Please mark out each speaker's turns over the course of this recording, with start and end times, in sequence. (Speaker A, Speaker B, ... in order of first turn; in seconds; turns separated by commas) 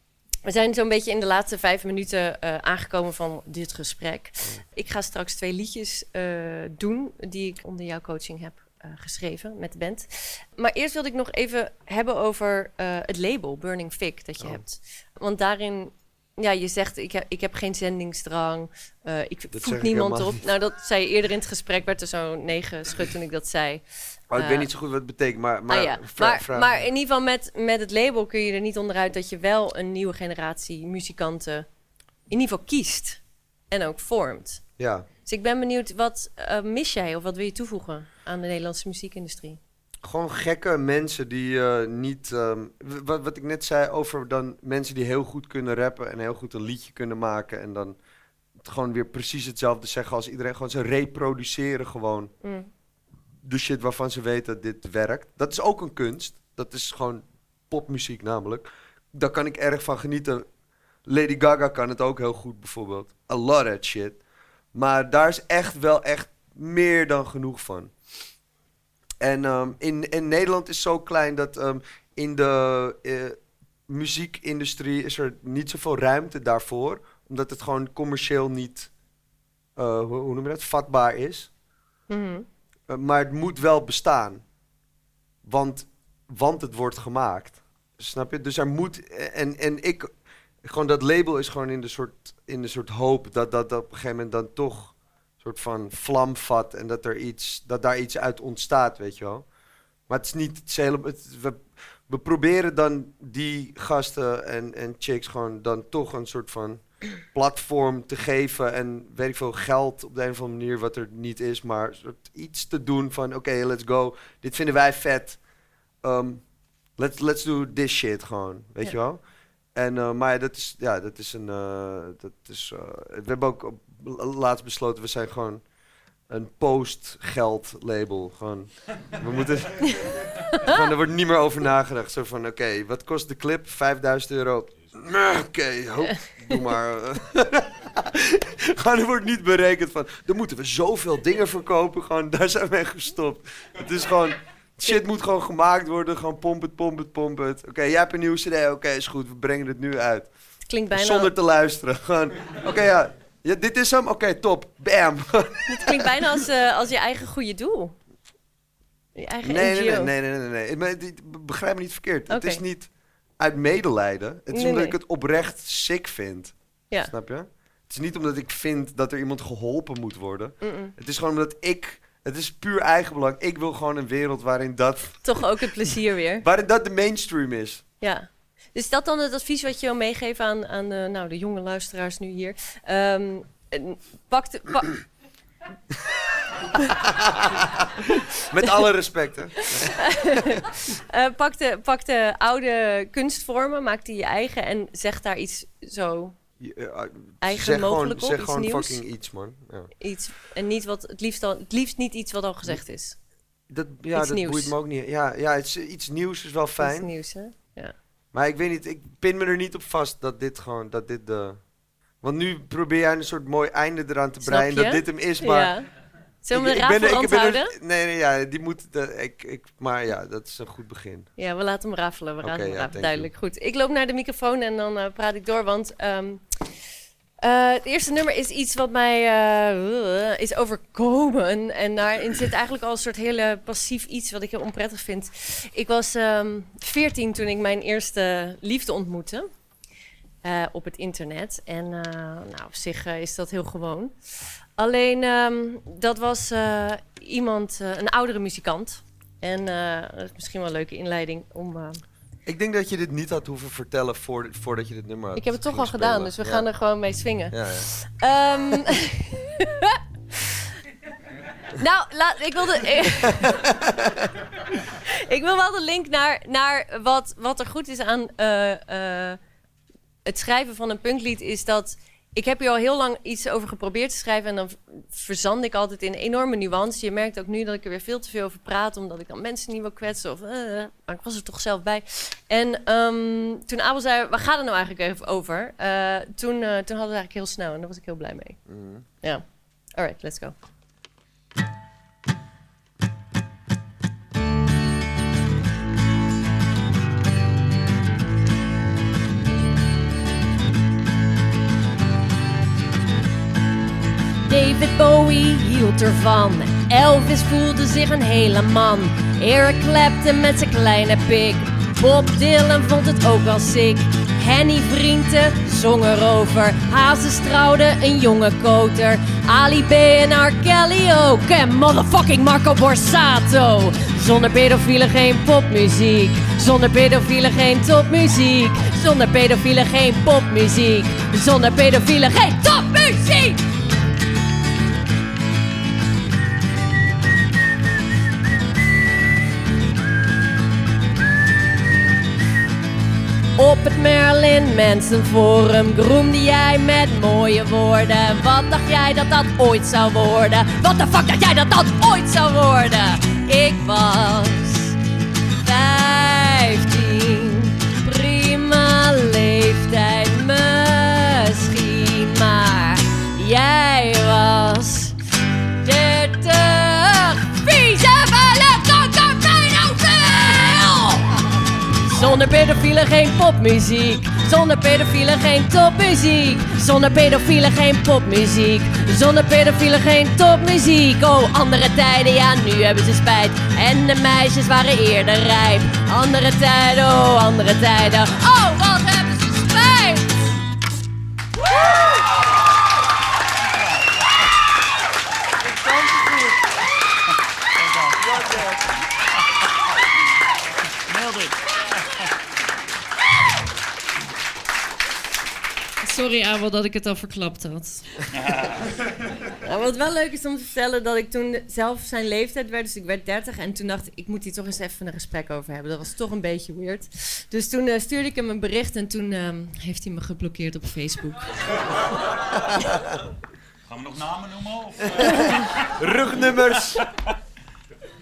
Speaker A: 0.5-24.7, Speaker B: 19.5-20.5, Speaker B: 24.3-26.8, Speaker A: 25.7-31.7, Speaker A: 32.3-34.6, Speaker B: 34.8-35.1, Speaker A: 35.2-39.6, Speaker B: 40.0-48.0, Speaker B: 48.6-52.3, Speaker A: 52.4-52.7, Speaker B: 53.4-60.5, Speaker B: 61.1-64.2, Speaker B: 64.7-67.9, Speaker B: 69.2-78.9, Speaker B: 79.8-81.5, Speaker A: 82.1-82.5, Speaker B: 82.9-84.4, Speaker B: 85.4-90.1, Speaker B: 90.6-99.5, Speaker B: 100.1-115.4, Speaker B: 116.0-116.4, Speaker B: 117.0-119.2, Speaker B: 119.8-125.6, Speaker B: 126.3-150.3, Speaker A: 130.5-130.8, Speaker A: 150.7-151.3, Speaker B: 150.9-156.3, Speaker A: 155.7-158.0, Speaker A: 159.2-160.1, Speaker B: 159.4-166.5, Speaker A: 162.3-162.6, Speaker A: 164.5-165.0, Speaker B: 167.1-175.2, Speaker A: 170.6-170.9, Speaker A: 175.2-176.4, Speaker B: 176.4-177.8, Speaker A: 178.0-185.0, Speaker B: 187.0-190.7, Speaker A: 189.8-196.4, Speaker B: 196.6-199.9, Speaker A: 197.4-199.0, Speaker A: 200.0-203.2, Speaker B: 203.7-207.1, Speaker A: 204.1-204.7, Speaker A: 206.8-207.9, Speaker B: 208.3-211.6, Speaker B: 212.2-215.8, Speaker A: 214.4-215.9, Speaker A: 216.4-217.7, Speaker B: 216.5-221.3, Speaker A: 221.4-226.6, Speaker B: 222.4-223.3, Speaker A: 227.4-239.5, Speaker A: 240.4-244.2, Speaker A: 244.8-252.0, Speaker B: 252.5-256.7, Speaker A: 255.3-260.7, Speaker B: 257.5-257.9, Speaker A: 261.7-263.7, Speaker B: 263.3-264.3, Speaker A: 265.1-269.4, Speaker A: 270.2-288.6, Speaker B: 288.7-289.1, Speaker A: 290.0-290.6, Speaker A: 304.5-333.6, Speaker A: 343.6-354.9, Speaker A: 355.6-365.2, Speaker A: 365.8-371.4, Speaker A: 371.9-390.5, Speaker B: 395.9-396.5, Speaker C: 397.8-398.4, Speaker B: 398.2-398.8, Speaker C: 401.1-402.2, Speaker A: 406.0-408.1, Speaker C: 408.3-409.1, Speaker A: 409.5-421.6, Speaker C: 423.9-425.9, Speaker B: 426.0-427.0